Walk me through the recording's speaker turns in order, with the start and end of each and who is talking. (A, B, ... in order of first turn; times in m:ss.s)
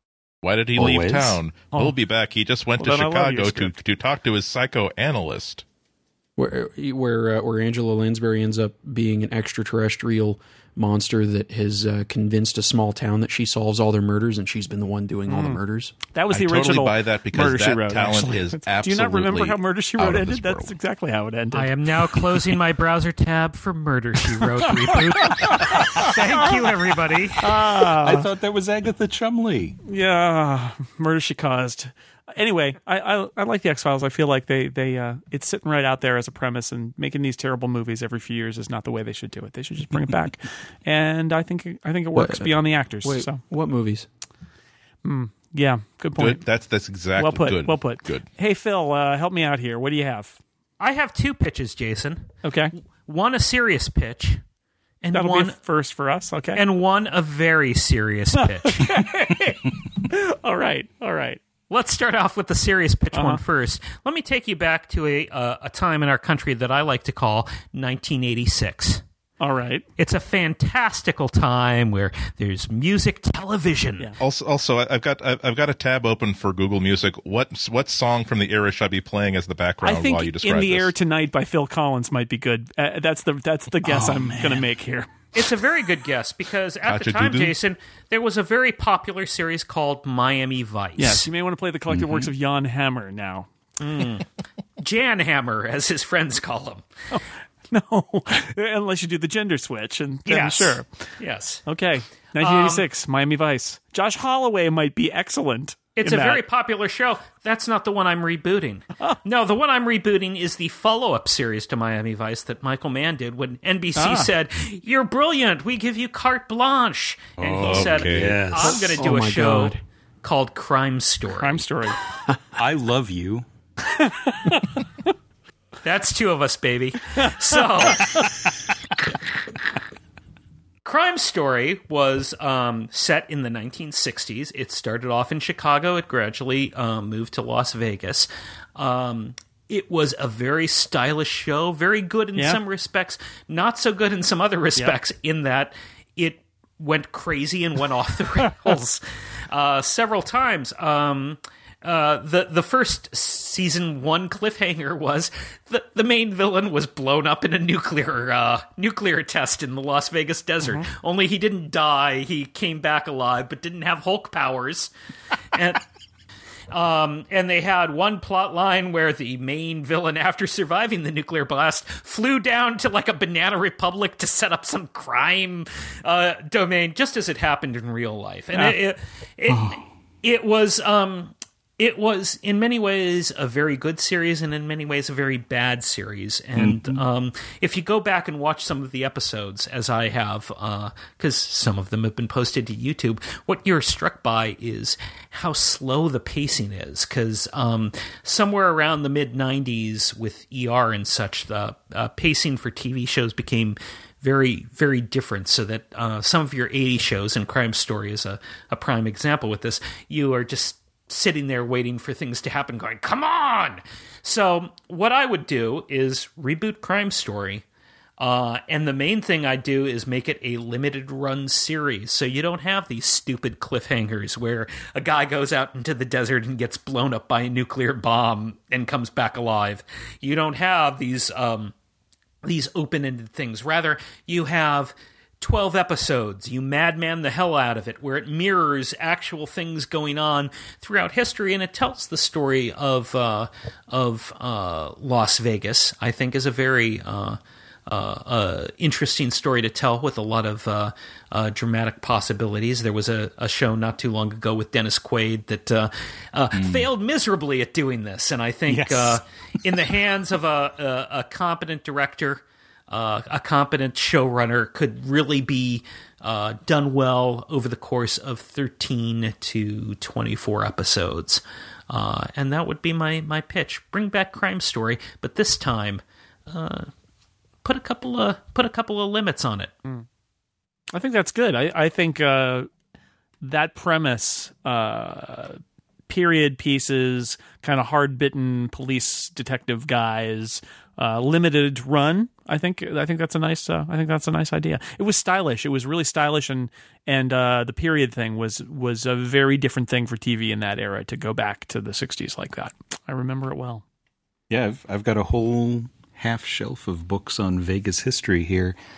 0:00.4-0:05.6 A
0:00.8-0:01.4 B
0:02.8-0:03.7 C
0:06.4-0:15.9 D
0:15.3-0:15.6 C
0:16.1-0:22.4 C
0:16.3-0:20.7 A
0:21.5-0:27.5 E
0:24.9-0:26.5 C
0:27.4-0:28.3 C
0:28.0-0:29.8 B
0:29.9-0:43.4 C
0:42.1-0:44.1 D
0:45.0-0:46.4 C
0:46.2-0:48.2 A
0:47.2-0:50.4 C
0:50.8-0:52.3 E
0:52.4-0:52.7 C
0:53.0-0:54.4 E
0:55.0-0:55.6 E
0:55.1-0:56.6 C
0:56.6-0:58.9 E
0:58.6-1:01.4 C
1:01.7-1:09.0 E
1:03.1-1:03.4 C
1:09.4-1:09.8 C
1:10.0-1:14.1 E
1:14.2-1:20.9 A
1:19.8-1:25.1 C
1:23.8-1:24.6 B
1:25.3-1:31.3 E
1:26.9-1:27.6 A
1:31.0-1:33.5 C
1:31.9-1:32.3 B
1:33.8-1:36.8 E
1:37.1-1:41.0 C
1:40.3-1:41.6 E
1:41.6-1:46.4 C
1:42.4-1:42.8 E
1:46.0-2:01.6 E
1:54.0-1:54.3 C
1:57.4-1:59.0 B
1:57.6-1:58.4 A
1:58.6-1:59.8 D
2:01.4-2:02.0 C
2:02.6-2:03.4 B
2:03.8-2:04.8 C
2:05.8-2:08.3 E
2:07.9-2:08.2 C
2:10.8-2:44.9 E
2:40.6-2:40.9 C
2:45.5-2:45.8 E
2:46.7-3:37.6 E
2:59.5-2:59.8 B
3:06.6-3:07.0 B
3:38.2-3:51.7 E
3:52.4-4:36.9 E
4:16.6-4:16.9 B
4:18.7-4:19.2 B
4:37.6-4:39.8 E
4:40.9-4:42.7 C
4:43.4-5:03.8 C
5:04.5-5:08.8 B